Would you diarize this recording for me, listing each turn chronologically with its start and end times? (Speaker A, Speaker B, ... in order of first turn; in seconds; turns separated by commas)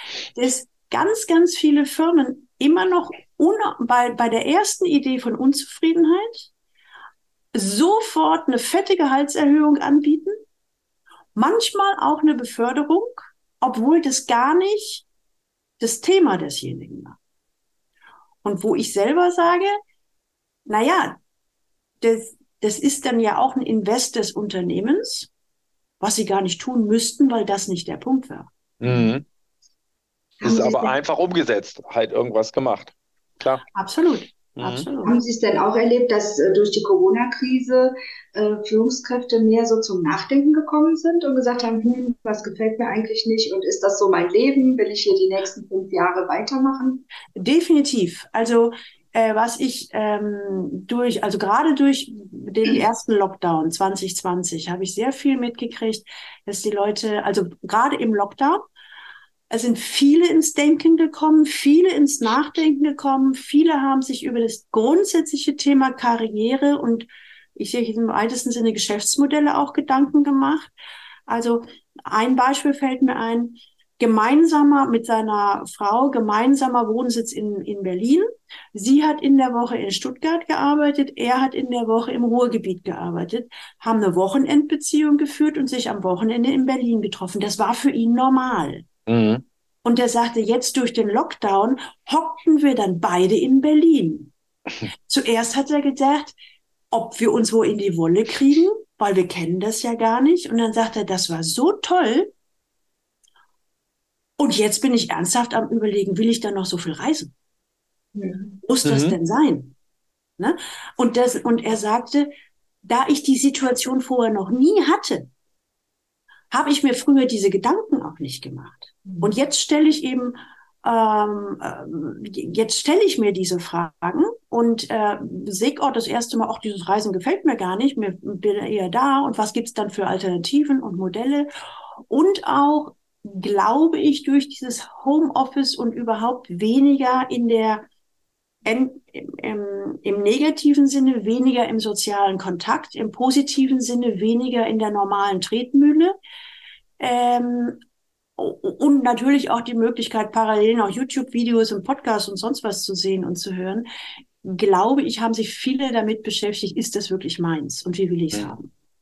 Speaker A: 0.3-6.5, Speaker A: 7.5-10.4, Speaker A: 11.3-15.1, Speaker A: 15.8-17.2, Speaker A: 18.4-19.7, Speaker A: 20.7-21.2, Speaker A: 22.0-25.3, Speaker A: 26.0-28.5, Speaker B: 28.8-29.2, Speaker C: 28.8-29.1, Speaker C: 30.4-30.9, Speaker B: 30.4-33.6, Speaker A: 33.8-35.2, Speaker B: 34.6-34.9, Speaker C: 35.0-47.0, Speaker A: 47.4-58.6, Speaker A: 59.5-70.7, Speaker A: 71.3-88.9, Speaker B: 89.1-89.4, Speaker A: 89.8-94.3, Speaker A: 95.1-96.3, Speaker A: 96.9-102.3, Speaker A: 104.4-107.3, Speaker C: 108.1-108.6, Speaker A: 108.7-109.7, Speaker B: 108.8-109.2, Speaker A: 110.4-112.3, Speaker A: 112.8-115.3, Speaker A: 116.5-131.5, Speaker A: 132.1-137.9, Speaker A: 138.7-146.2, Speaker A: 147.0-147.8, Speaker A: 148.4-153.9, Speaker A: 154.4-158.7